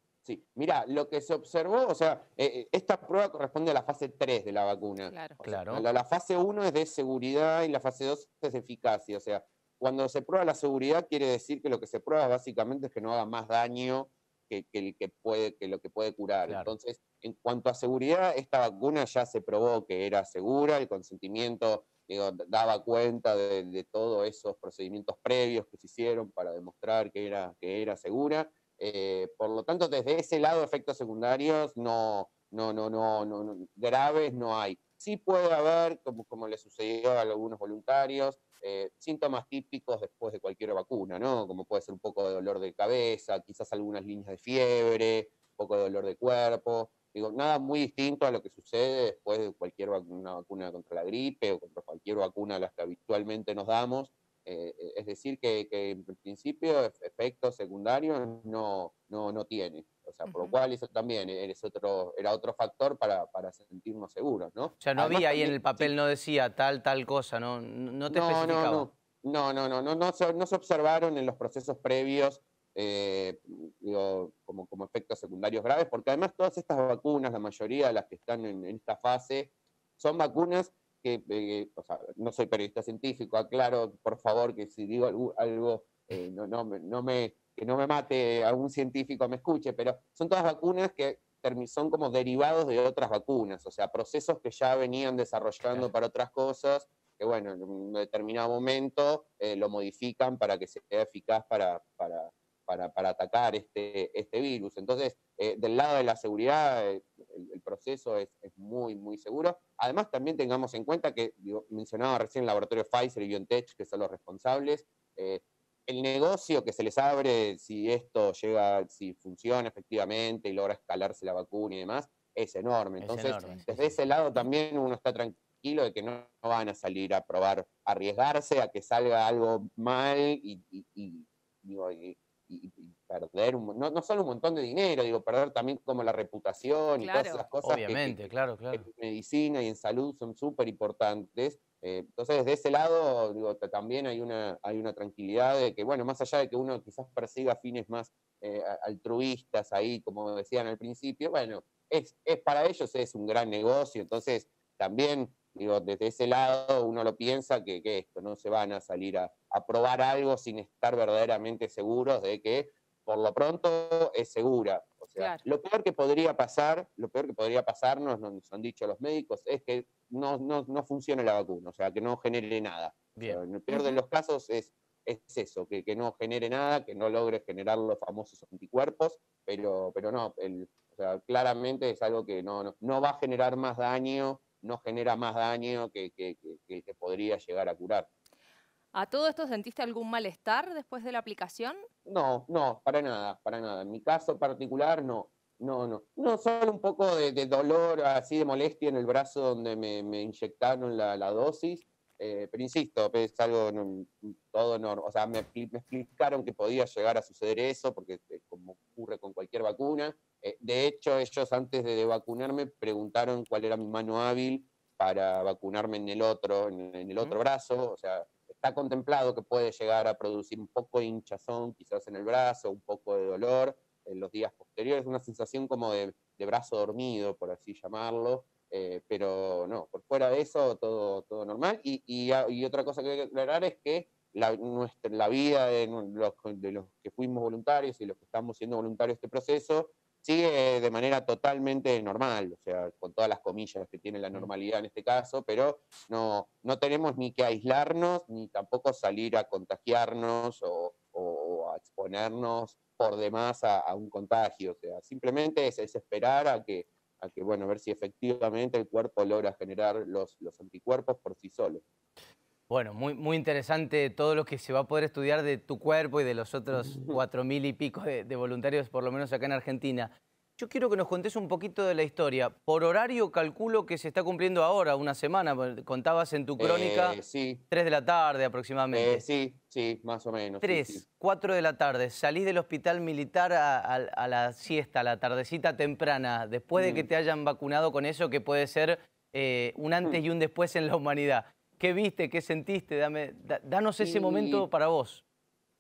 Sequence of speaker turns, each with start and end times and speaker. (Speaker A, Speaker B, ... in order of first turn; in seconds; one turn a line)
Speaker A: 0.2-65.9
Speaker B: 5.1-5.4
Speaker C: 5.4-5.8
Speaker B: 60.3-60.5
Speaker C: 64.8-68.9
Speaker A: 68.1-188.1
Speaker C: 123.0-123.9
Speaker B: 123.4-123.6
Speaker B: 137.0-137.4
Speaker C: 137.6-138.9
Speaker B: 165.2-165.4
Speaker B: 173.7-174.0
Speaker B: 188.9-191.8
Speaker A: 192.1-261.8
Speaker C: 262.7-277.2
Speaker A: 266.7-267.2
Speaker A: 276.6-277.6
Speaker C: 277.7-279.2
Speaker A: 278.9-281.0
Speaker C: 280.6-295.2
Speaker A: 286.8-287.1
Speaker A: 294.0-294.7